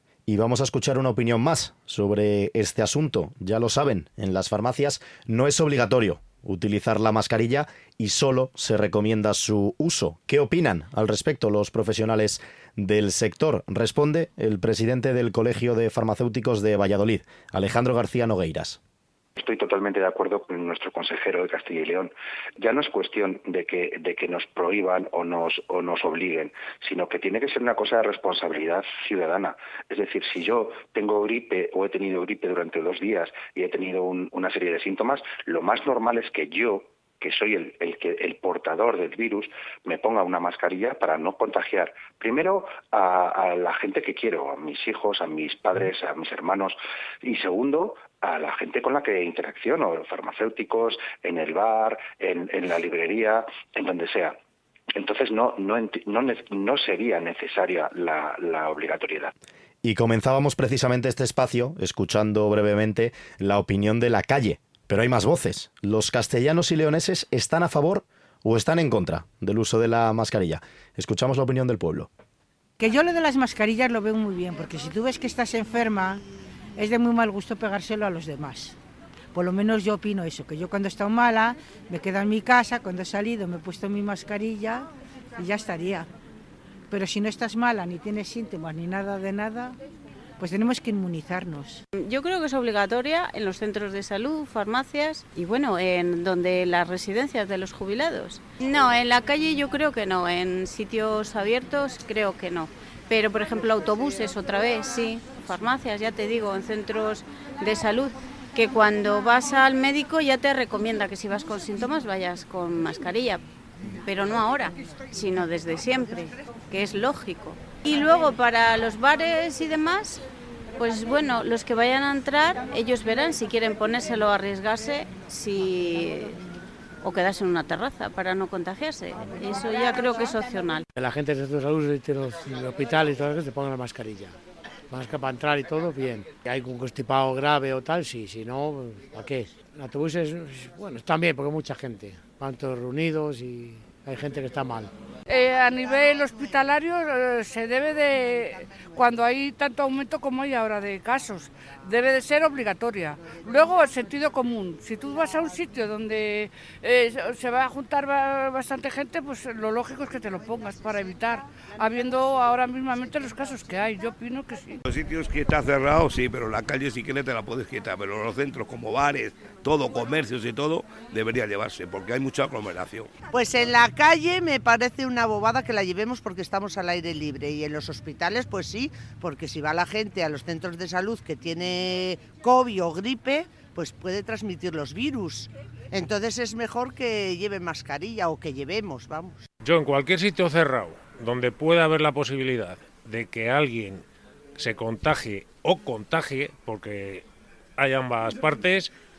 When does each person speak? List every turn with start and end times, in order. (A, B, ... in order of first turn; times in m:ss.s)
0:00.3-0:18.8 A
0:19.4-0:54.4 B
0:55.0-0:59.3 B
0:59.8-1:12.1 A
1:12.8-1:16.2 C
1:16.8-1:18.8 C
1:19.3-1:26.1 C
1:26.9-1:29.8 C
1:30.4-1:31.8 C
1:32.0-1:53.4 D
1:54.0-2:00.2 D
2:00.8-2:06.4 D
2:07.0-2:10.8 D
2:11.0-2:14.4 E
2:14.9-2:24.9 E
2:25.3-2:44.8 F
2:44.8-2:53.1 G
2:53.3-3:09.4 H
3:09.6-3:14.0 I
3:14.6-3:17.3 I
3:17.8-3:18.9 I